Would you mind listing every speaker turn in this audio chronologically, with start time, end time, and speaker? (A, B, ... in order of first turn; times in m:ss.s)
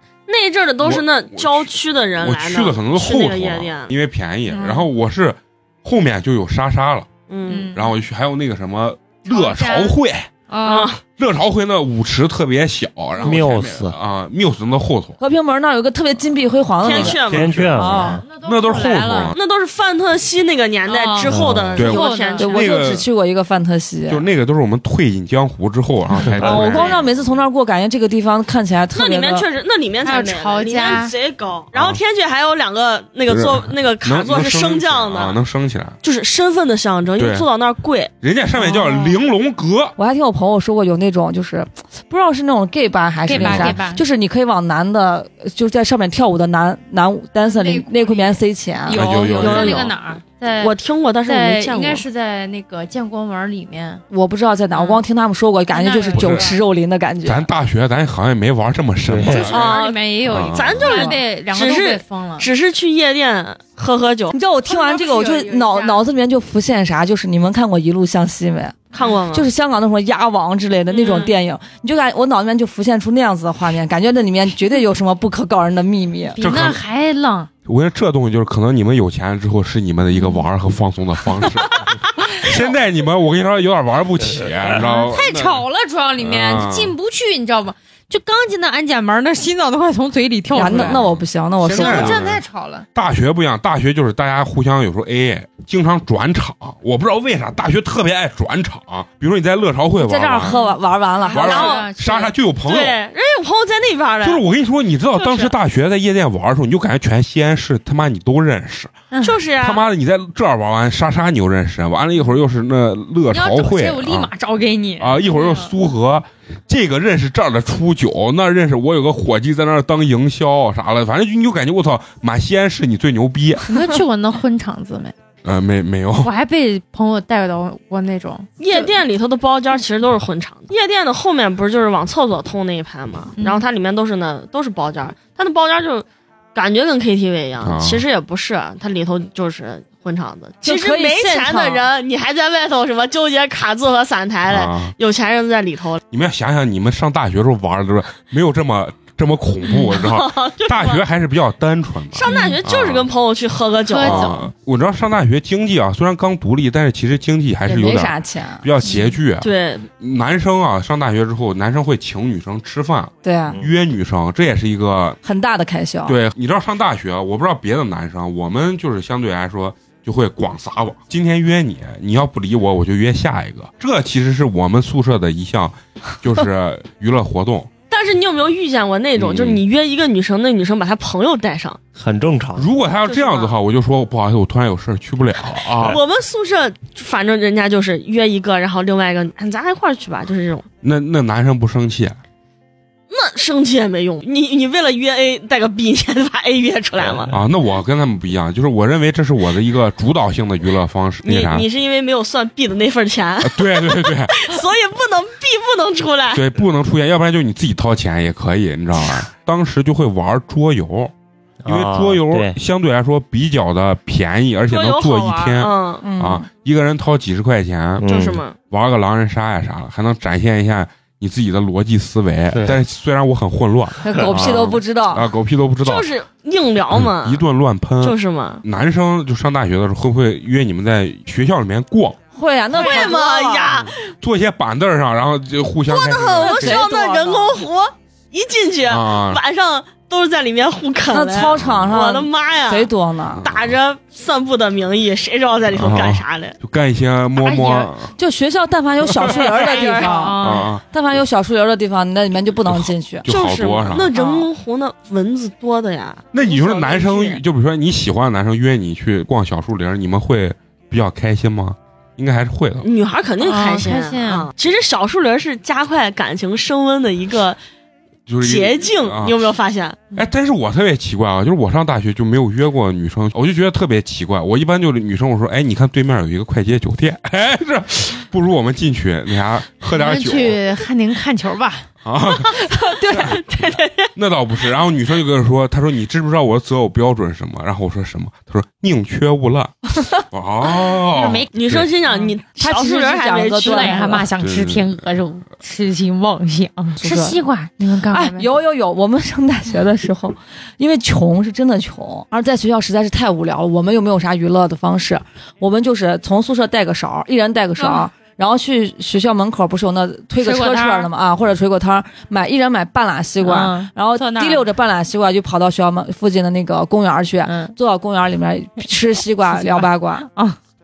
0:00.3-0:03.9 A
0:00.8-0:07.1 B
0:04.5-0:04.9 C
0:07.3-0:07.8 A
0:07.5-0:07.9 C
0:07.7-0:10.3 B
0:09.3-0:10.0 C
0:10.5-0:10.9 C
0:10.6-0:11.0 A
0:11.2-0:15.2 B
0:13.2-0:14.0 D
0:15.2-0:18.2 E
0:16.8-0:17.6 A
0:16.8-0:19.4 B
0:17.2-0:18.3 D
0:17.9-0:19.4 C
0:19.3-0:22.7 A
0:20.9-0:22.6 C
0:21.3-0:21.9 D
0:21.8-0:23.0 B
0:22.4-0:24.3 E
0:24.1-0:27.4 B
0:26.2-0:26.8 D
0:26.4-0:29.5 E
0:26.6-0:27.0 C
0:28.9-0:35.4 A
0:30.0-0:31.1 C
0:31.8-0:32.0 B
0:33.3-0:36.0 B
0:36.0-0:38.1 A
0:37.2-0:37.5 B
0:38.2-0:40.0 B
0:38.5-0:39.2 E
0:40.0-0:49.1 E
0:43.2-0:44.0 C
0:43.3-0:43.8 B
0:47.4-0:54.0 C
0:48.9-0:50.0 B
0:49.3-0:50.0 A
0:50.6-0:52.0 A
0:54.1-0:57.5 E
0:54.7-0:55.0 C
0:55.7-0:56.6 C
0:56.1-0:56.5 B
0:57.2-1:01.1 B
0:59.0-0:59.5 D
0:59.3-1:02.5 C
0:59.5-1:04.4 A
1:04.3-1:16.4 E
1:04.6-1:06.1 C
1:08.9-1:09.5 A
1:10.9-1:11.3 A
1:16.3-1:17.5 C
1:16.4-1:16.8 B
1:17.7-1:25.7 B
1:24.8-1:31.0 C
1:26.2-1:27.0 B
1:30.5-1:32.2 E
1:30.6-1:32.4 B
1:31.7-1:32.9 C
1:33.0-1:40.6 B
1:39.9-1:41.9 E
1:40.4-1:42.4 C
1:41.3-1:43.0 B
1:42.7-1:44.4 A
1:44.2-1:48.9 B
1:45.2-1:45.5 C
1:49.2-1:49.8 A
1:49.6-1:54.3 B
1:53.3-1:55.7 C
1:55.0-2:03.8 B
2:03.7-2:05.1 C
2:05.4-2:06.3 B
2:06.2-2:08.9 C
2:08.6-2:26.0 A
2:13.4-2:13.6 C
2:17.6-2:18.0 B
2:20.6-2:21.8 E
2:24.5-2:25.0 B
2:26.1-2:33.1 B
2:29.6-2:31.0 A
2:32.1-2:34.4 A
2:32.3-2:32.6 C
2:33.9-2:34.5 C
2:34.0-2:45.2 B
2:37.6-2:38.7 E
2:39.4-2:39.9 A
2:43.2-2:43.6 E
2:45.2-2:46.2 E
2:46.1-2:57.7 B
2:57.9-3:01.8 A
2:59.2-2:59.6 B
3:02.0-3:02.7 D
3:02.6-3:06.0 B
3:03.1-3:03.6 A
3:05.8-3:10.7 A
3:10.8-3:12.2 B
3:13.1-3:17.3 A
3:17.3-3:21.7 B
3:21.2-3:26.4 A
3:23.4-3:24.4 B
3:26.3-3:31.1 B
3:31.6-3:32.6 D
3:31.7-3:38.1 B
3:34.7-3:36.1 A
3:36.0-3:36.5 E
3:38.0-3:38.4 D
3:38.1-3:38.6 A
3:38.6-3:46.1 B
3:44.0-3:45.3 E
3:45.8-3:47.5 A
3:46.9-3:52.2 B
3:48.0-3:48.6 A
3:52.3-3:53.8 E
3:52.7-3:54.0 A
3:53.8-3:56.8 B
3:55.9-4:02.9 A
3:56.4-3:57.7 E
3:58.9-3:59.4 B
4:01.1-4:03.4 E
4:01.6-4:01.9 B
4:03.3-4:03.8 B
4:03.4-4:06.6 A
4:05.7-4:08.1 B
4:07.4-4:07.9 C
4:08.2-4:13.3 E
4:09.2-4:10.3 A
4:09.6-4:10.7 C
4:10.4-4:10.8 B
4:12.7-4:14.1 B
4:13.3-4:17.4 A
4:16.3-4:22.9 B
4:22.8-4:27.6 A
4:23.4-4:24.5 C
4:28.3-4:29.4 B
4:28.4-4:30.0 A
4:30.1-4:40.6 B
4:39.9-4:41.9 C
4:42.0-4:42.7 B
4:42.6-4:43.4 E
4:43.1-4:44.1 A
4:44.2-4:51.9 B
4:51.1-4:51.5 C
4:51.5-4:54.2 A
4:52.6-4:54.3 E
4:53.6-4:58.5 C
4:54.4-4:55.0 B
4:57.0-4:57.4 E
4:58.1-5:20.3 E
5:07.8-5:08.0 C
5:10.4-5:11.1 C
5:13.4-5:14.7 C
5:17.4-5:17.8 C
5:19.5-5:20.6 C